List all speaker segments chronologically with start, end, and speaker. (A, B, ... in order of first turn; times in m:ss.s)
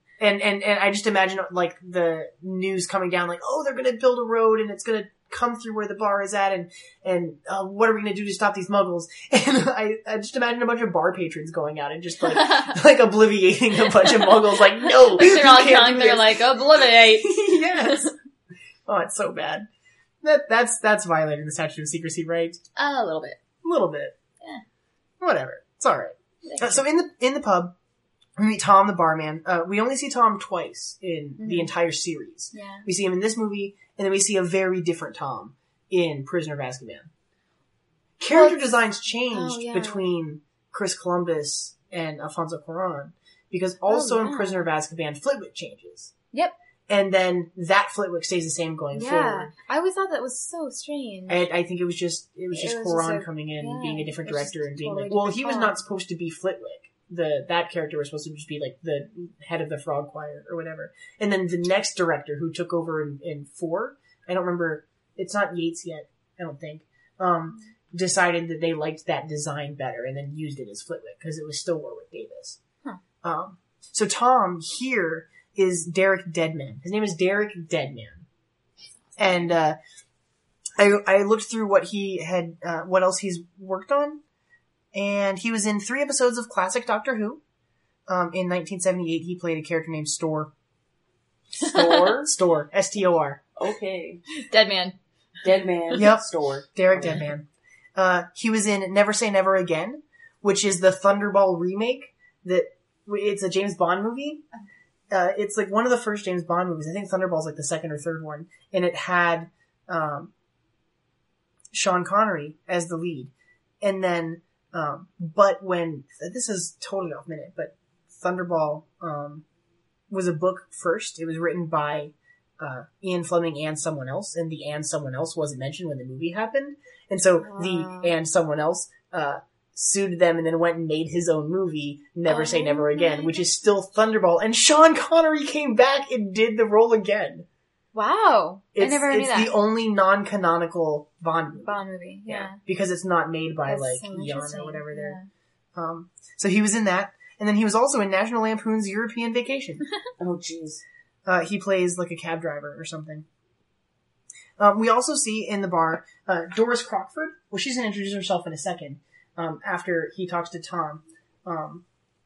0:00.2-0:16.6 A
0:12.2-0:12.8 B
0:13.9-0:18.1 B
0:17.2-0:18.1 A
0:18.9-0:19.7 A
0:20.2-0:22.6 A
0:22.8-0:23.4 B
0:23.6-0:24.2 A
0:25.2-0:27.8 A
0:26.4-0:26.8 B
0:28.4-0:37.1 A
0:31.4-0:31.7 B
0:32.5-0:32.9 B
0:38.2-0:46.1 A
0:38.3-0:38.6 B
0:39.3-0:40.1 B
0:43.9-0:44.7 B
0:46.9-0:49.5 A
0:48.9-0:51.5 B
0:51.3-1:12.6 A
0:52.5-0:55.8 B
1:13.2-1:18.3 A
1:19.1-1:19.5 B
1:19.2-1:19.8 A
1:20.8-1:24.2 A
1:24.9-1:27.4 A
1:28.1-1:30.5 A
1:31.5-1:32.3 C
1:31.6-1:32.2 B
1:32.2-1:33.4 A
1:33.6-1:34.2 C
1:34.3-1:35.0 B
1:35.4-1:37.3 C
1:36.0-1:44.4 A
1:45.1-1:50.3 A
1:51.7-1:53.3 A
1:53.8-1:59.4 A
2:00.1-2:17.5 A
2:07.4-2:08.1 B
2:12.3-2:13.5 B
2:17.9-2:19.6 B
2:18.8-2:25.2 A
2:21.6-2:22.6 B
2:23.7-2:25.3 B
2:25.8-2:29.8 A
2:30.2-2:30.8 C
2:31.3-2:33.3 A
2:34.6-2:41.8 A